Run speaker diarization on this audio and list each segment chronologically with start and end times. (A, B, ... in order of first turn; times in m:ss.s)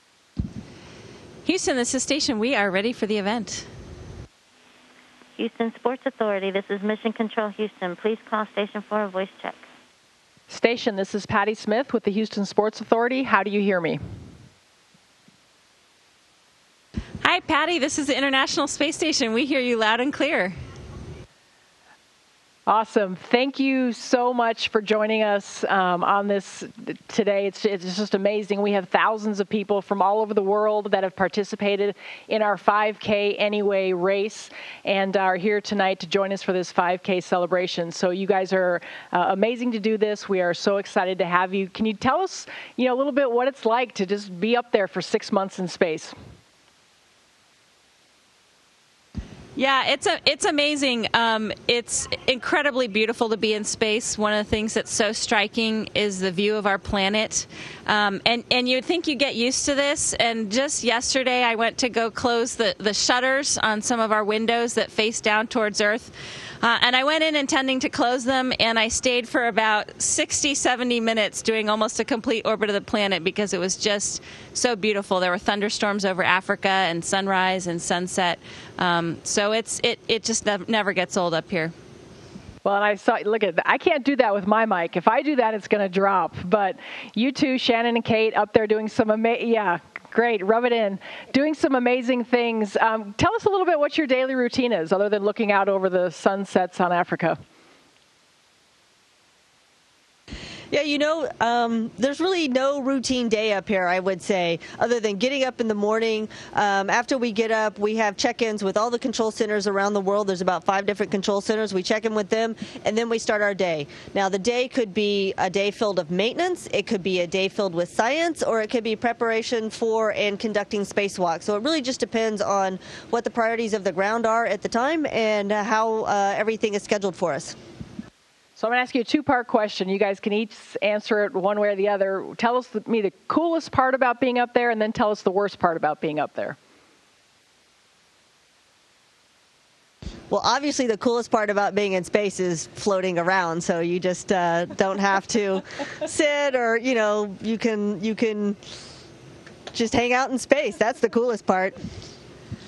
0:01.4-0:03.7 A
0:05.4-0:09.6 B
0:10.5-0:14.0 C
0:17.2-0:20.5 A
0:22.7-0:46.1 C
0:49.6-1:21.7 A
1:22.6-1:37.4 C
1:40.7-2:07.6 D
2:08.6-2:16.6 C
2:20.3-2:28.6 D
2:29.7-2:31.8 D